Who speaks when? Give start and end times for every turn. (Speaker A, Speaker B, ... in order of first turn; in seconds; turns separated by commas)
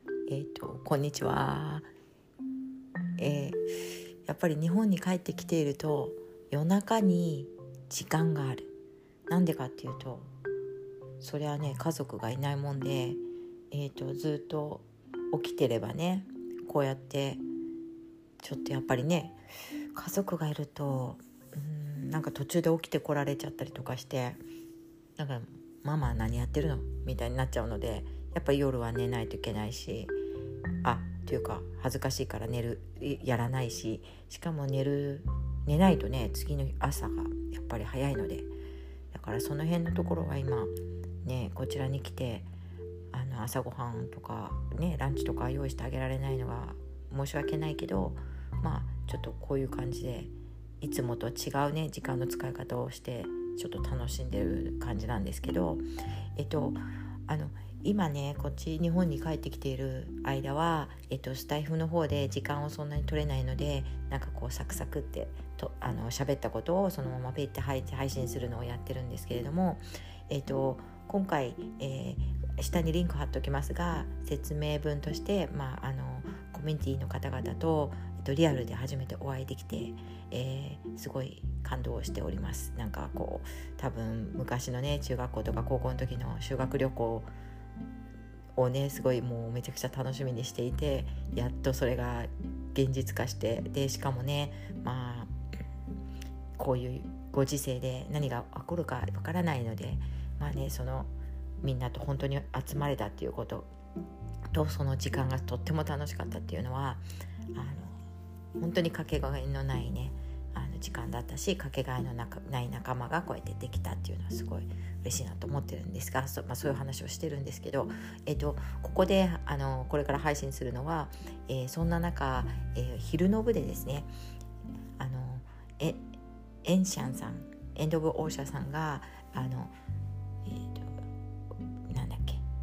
Speaker A: 0.3-1.9, Speaker A: 3.2-3.6, Speaker A: 4.2-8.7, Speaker A: 9.3-10.3, Speaker A: 11.2-17.4, Speaker A: 18.4-19.4, Speaker A: 19.9-24.4, Speaker A: 25.2-30.2, Speaker A: 30.8-38.5, Speaker A: 39.1-42.5, Speaker A: 43.1-55.8, Speaker A: 56.4-87.3, Speaker A: 88.5-95.3, Speaker A: 96.6-103.7, Speaker A: 104.5-108.0, Speaker A: 108.6-124.1, Speaker A: 125.0-126.0, Speaker A: 126.6-129.7, Speaker A: 130.4-130.9, Speaker A: 131.9-132.4